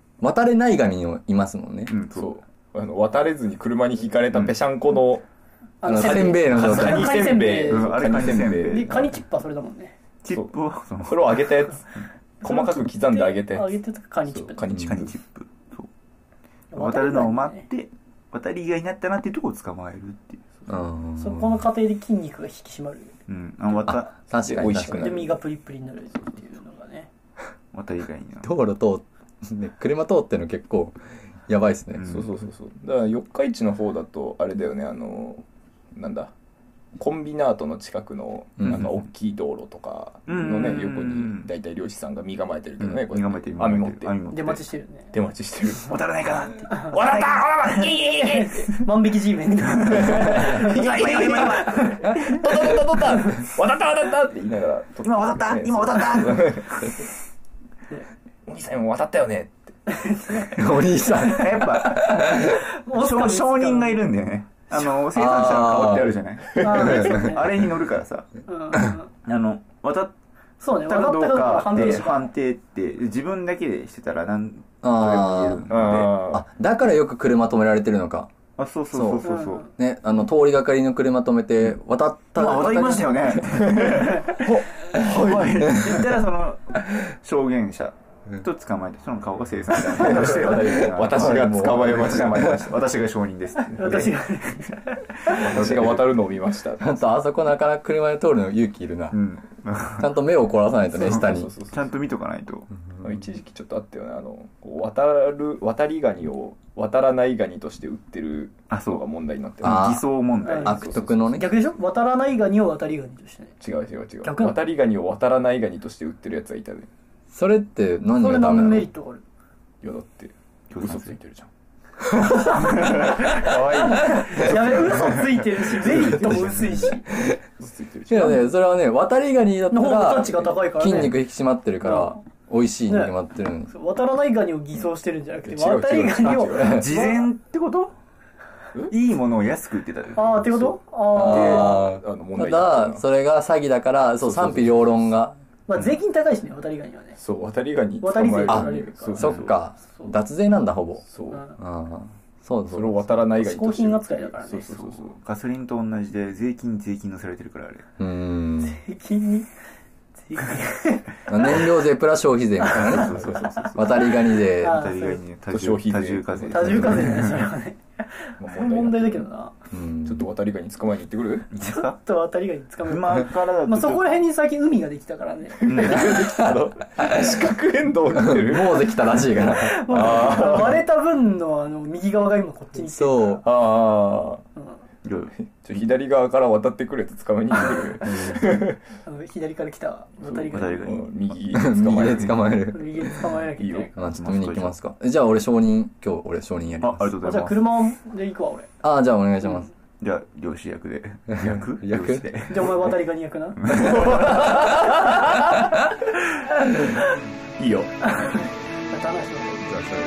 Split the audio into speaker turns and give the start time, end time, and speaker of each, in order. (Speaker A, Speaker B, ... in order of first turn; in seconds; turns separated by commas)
Speaker A: 0.2-1.9, Speaker B: 1.9-2.4, Speaker C: 2.1-5.2, Speaker D: 5.8-9.9, Speaker A: 5.8-7.2, Speaker C: 5.9-9.1, Speaker B: 6.6-8.9, Speaker B: 10.2-12.0, Speaker C: 10.3-13.8, Speaker D: 12.4-14.6, Speaker C: 14.2-15.2, Speaker B: 14.7-15.9, Speaker D: 16.7-17.7, Speaker B: 16.7-20.5, Speaker A: 20.7-21.7, Speaker D: 21.2-23.1, Speaker B: 23.3-24.8, Speaker A: 23.9-25.2, Speaker C: 24.4-25.4, Speaker D: 24.6-27.1, Speaker B: 27.7-28.5, Speaker A: 28.4-31.0, Speaker A: 31.5-32.2, Speaker B: 31.9-32.3, Speaker C: 32.0-35.4, Speaker C: 35.9-36.3, Speaker C: 37.0-44.3, Speaker A: 38.6-38.9, Speaker B: 38.7-39.0, Speaker B: 40.3-41.5, Speaker B: 42.8-44.6, Speaker D: 44.3-45.1, Speaker C: 45.1-46.0, Speaker B: 45.8-48.0, Speaker D: 46.7-47.0, Speaker C: 46.9-48.7, Speaker D: 47.9-53.4, Speaker B: 49.8-52.2, Speaker C: 49.9-57.0, Speaker B: 55.0-57.0, Speaker C: 58.5-59.8, Speaker D: 59.9-61.4, Speaker A: 60.4-62.7, Speaker B: 61.2-62.1, Speaker D: 62.2-64.0, Speaker B: 62.9-68.3, Speaker A: 64.8-66.1, Speaker D: 66.6-67.5, Speaker A: 66.8-67.3, Speaker D: 68.5-69.1, Speaker B: 69.2-70.1, Speaker D: 70.6-72.3, Speaker B: 70.7-76.1, Speaker A: 74.8-75.7, Speaker C: 75.7-76.4, Speaker A: 76.3-78.3, Speaker B: 78.6-79.7, Speaker A: 78.9-83.5, Speaker D: 79.2-79.6, Speaker B: 82.3-94.3, Speaker C: 83.5-86.0, Speaker C: 89.9-92.7, Speaker A: 90.4-92.6, Speaker D: 93.7-95.3, Speaker B: 95.2-96.1, Speaker C: 95.2-97.1, Speaker A: 96.8-99.2, Speaker B: 99.1-100.2, Speaker A: 100.0-101.5, Speaker B: 101.0-102.7, Speaker C: 101.0-101.9, Speaker C: 103.0-110.0, Speaker B: 108.7-109.1, Speaker B: 109.6-111.0, Speaker A: 109.6-110.1, Speaker D: 110.4-113.5, Speaker C: 110.6-111.3, Speaker A: 110.6-111.5, Speaker C: 113.6-116.9, Speaker D: 114.2-114.6, Speaker A: 117.3-118.9, Speaker D: 118.2-119.2, Speaker C: 119.8-121.5, Speaker B: 120.7-121.2, Speaker B: 122.5-126.9, Speaker D: 123.1-127.1, Speaker C: 127.6-128.5, Speaker A: 128.1-133.7, Speaker D: 129.7-131.2, Speaker D: 131.8-132.2, Speaker D: 132.9-133.2, Speaker D: 133.7-137.3, Speaker C: 135.4-136.8, Speaker A: 136.5-136.9, Speaker B: 136.7-137.9, Speaker B: 138.9-140.5, Speaker D: 140.1-141.8, Speaker C: 140.5-143.0, Speaker A: 141.2-145.3, Speaker C: 144.2-144.8, Speaker D: 145.7-147.2, Speaker C: 147.2-149.5, Speaker D: 148.0-149.2, Speaker A: 148.5-153.0, Speaker B: 149.2-149.5, Speaker C: 151.1-151.4, Speaker C: 152.7-155.2, Speaker D: 153.4-155.0, Speaker B: 154.8-157.8, Speaker A: 158.0-158.8, Speaker D: 158.6-159.5, Speaker D: 160.2-161.7, Speaker A: 161.3-164.9, Speaker B: 162.6-167.5, Speaker C: 163.0-163.8, Speaker D: 164.0-165.2, Speaker C: 165.5-167.2, Speaker D: 166.5-169.5, Speaker C: 168.4-169.3, Speaker A: 169.7-170.3, Speaker C: 170.0-171.5, Speaker B: 171.5-172.0, Speaker D: 171.6-176.0, Speaker B: 172.8-174.2, Speaker C: 175.6-180.8, Speaker B: 175.6-176.1, Speaker A: 178.2-180.4, Speaker D: 179.2-183.4, Speaker A: 182.8-183.4, Speaker C: 183.4-184.4, Speaker B: 185.0-185.3, Speaker C: 185.5-188.8, Speaker D: 189.0-191.0, Speaker C: 190.2-192.3, Speaker B: 190.5-192.5, Speaker A: 191.5-193.4, Speaker D: 192.7-193.9, Speaker C: 193.6-193.9, Speaker A: 193.9-197.2, Speaker B: 194.0-194.8, Speaker B: 196.8-197.8, Speaker D: 197.2-198.7, Speaker A: 198.8-199.7, Speaker B: 200.0-202.9, Speaker A: 201.4-202.3, Speaker D: 202.5-204.1, Speaker B: 203.6-204.6, Speaker C: 203.9-205.4, Speaker C: 207.6-208.4, Speaker D: 208.0-208.4, Speaker D: 208.9-209.6